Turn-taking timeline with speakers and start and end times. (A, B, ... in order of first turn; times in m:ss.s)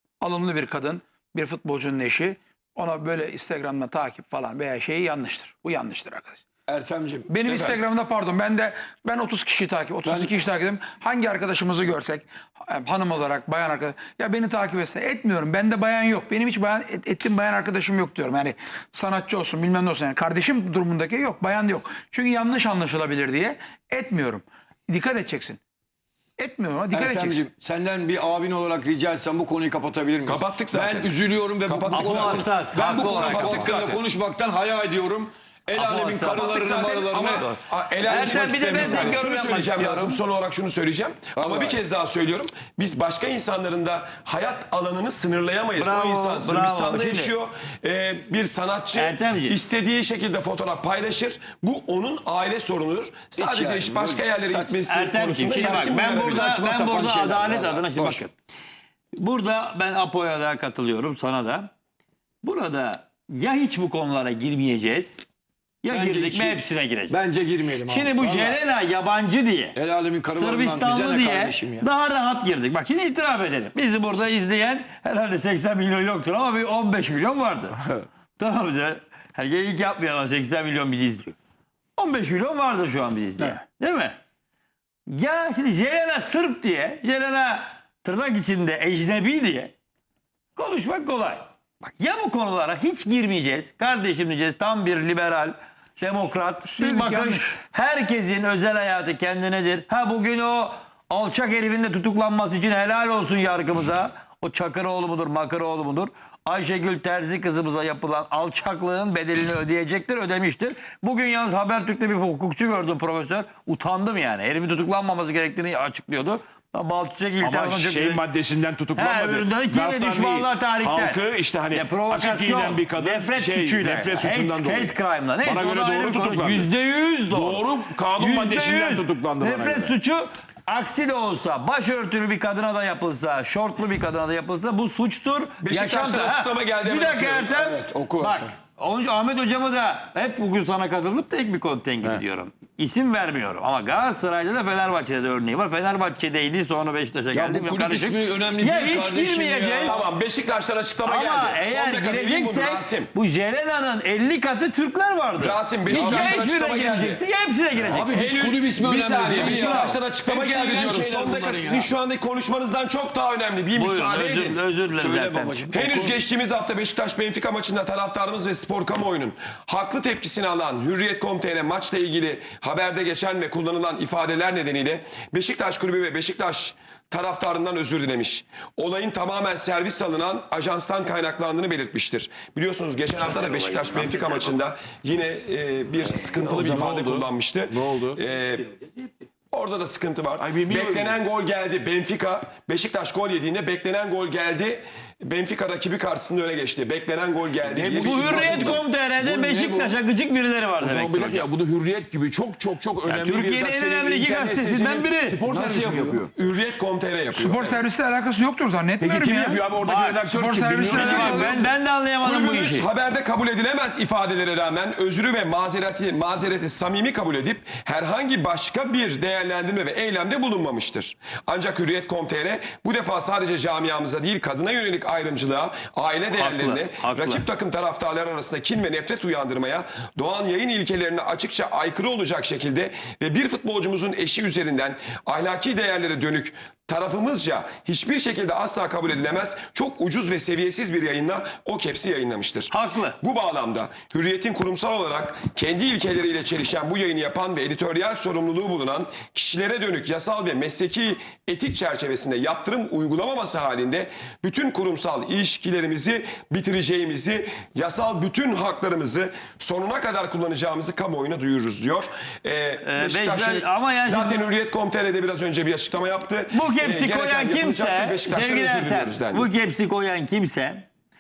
0:00.2-0:06.4 A
0:06.7-0:07.3 B
0:07.3-0:25.6 A
0:07.4-0:07.8 C
0:10.0-0:10.3 B
0:26.4-0:27.5 A
0:26.9-0:37.5 B
0:30.2-0:34.0 C
0:31.9-0:33.6 D
0:35.8-0:36.6 D
0:36.2-0:56.7 C
0:37.3-0:40.2 D
0:41.4-0:41.8 B
0:45.8-0:47.4 D
0:48.9-0:49.6 D
0:53.4-0:54.8 B
0:54.9-0:58.3 D
0:55.4-0:58.2 B
0:59.2-1:01.7 D
1:02.4-1:05.3 D
1:05.8-1:07.2 D
1:05.9-1:08.6 B
1:07.9-1:09.8 D
1:09.8-1:11.9 B
1:10.3-1:21.4 D
1:22.0-1:24.2 D
1:25.1-1:29.7 D
1:30.6-1:58.2 D
1:36.6-1:37.6 A
1:57.4-2:06.7 E
1:59.0-2:30.1 D
2:07.3-2:09.9 E
2:15.6-2:17.6 C
2:17.5-2:18.5 B
2:27.3-2:30.0 B
2:29.8-2:33.1 C
2:31.0-2:38.3 D
2:35.4-2:37.2 C
2:36.0-2:36.4 B
2:37.9-2:41.9 B
2:38.0-2:44.6 C
2:43.8-2:45.8 D
2:44.8-2:46.2 B
2:45.7-3:08.7 C
3:03.2-3:04.5 D
3:06.2-3:08.2 E
3:09.5-3:18.8 C
3:10.4-3:11.2 E
3:17.7-3:18.8 B
3:17.9-3:21.5 D
3:19.2-3:19.9 E
3:20.8-3:26.3 E
3:23.0-3:25.4 D
3:25.5-3:26.3 B
3:26.4-3:27.8 C
3:27.3-3:31.7 A
3:29.0-3:31.6 E
3:29.8-3:30.2 D
3:30.8-3:32.9 D
3:30.9-4:29.5 C
3:46.3-3:47.5 D
4:02.7-4:03.2 D
4:22.8-4:24.4 D
4:26.5-4:30.9 D